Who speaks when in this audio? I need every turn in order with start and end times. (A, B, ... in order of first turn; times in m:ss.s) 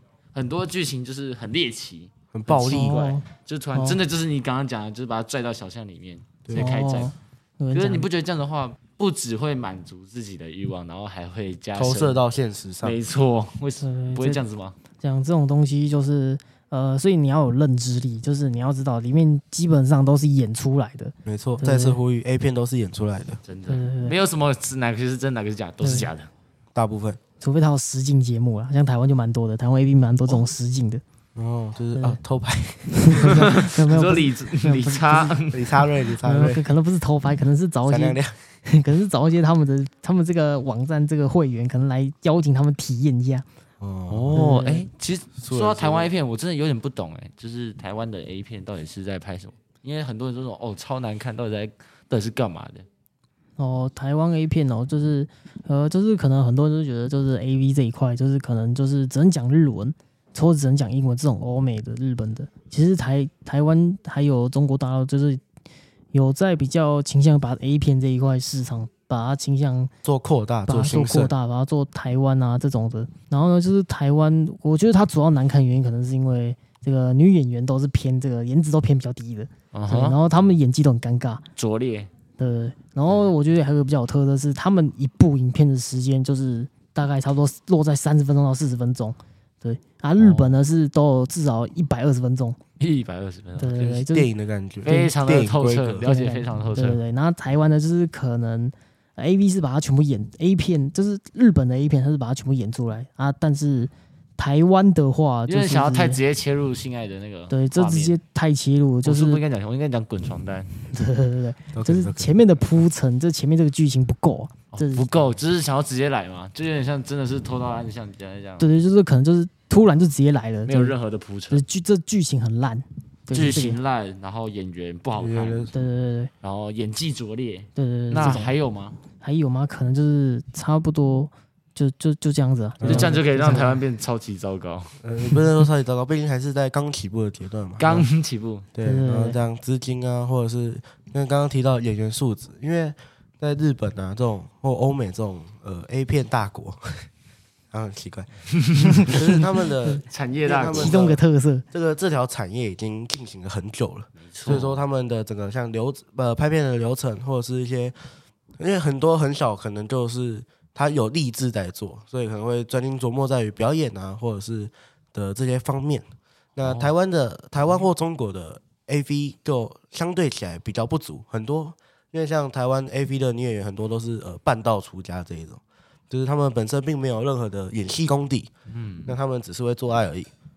0:00.3-0:07.1 A
0:02.3-0:03.1 B
0:02.5-0:04.0 C
0:06.5-0:08.0 C
0:07.7-0:12.2 A
0:11.7-0:13.0 B
0:12.8-0:14.8 A
0:13.8-0:14.4 C
0:15.0-0:22.0 C
0:21.2-0:23.4 B
0:23.4-0:26.3 A
0:23.7-0:24.2 C
0:25.8-0:26.1 C
0:26.7-0:27.2 B
0:27.4-0:31.0 C
0:31.4-0:33.8 B
0:32.9-0:35.4 C
0:33.2-0:35.8 A
0:35.5-0:36.7 B
0:36.2-0:43.4 C
0:37.8-0:38.4 B
0:43.8-0:44.4 B
0:44.1-0:52.8 A
0:44.3-0:44.8 C
0:45.4-0:46.1 B
0:53.6-1:05.4 C
1:06.1-1:09.9 C
1:10.0-1:11.3 B
1:10.7-1:21.4 C
1:19.7-1:20.2 A
1:21.6-1:22.1 A
1:22.4-1:32.6 C
1:30.2-1:30.6 A
1:32.8-1:34.0 A
1:33.6-1:34.3 C
1:34.1-1:36.1 B
1:34.8-1:35.1 C
1:34.8-1:37.0 A
1:36.0-1:46.2 C
1:45.5-1:48.2 A
1:47.5-1:49.4 C
1:49.0-1:50.7 A
1:50.9-1:55.2 C
1:51.7-1:52.4 B
1:54.7-1:58.7 A
1:58.6-2:00.9 C
2:00.6-2:01.6 A
2:01.5-2:03.8 C
2:03.3-2:05.7 A
2:05.1-2:05.8 B
2:05.7-2:06.3 C
2:06.4-2:09.0 A
2:07.8-2:08.5 C
2:09.2-2:13.8 C
2:12.8-2:13.2 B
2:12.8-2:15.0 A
2:15.0-2:18.1 B
2:17.8-2:18.6 A
2:18.7-2:27.1 B
2:18.8-2:19.4 C
2:27.7-2:28.3 B
2:28.6-2:29.1 A
2:29.0-2:38.0 B
2:30.0-2:31.1 A
2:30.6-2:31.6 C
2:34.2-2:34.8 A
2:38.6-2:46.0 B
2:46.6-2:58.5 B
2:46.6-2:46.9 A
2:58.7-2:59.2 A
2:59.0-3:00.3 B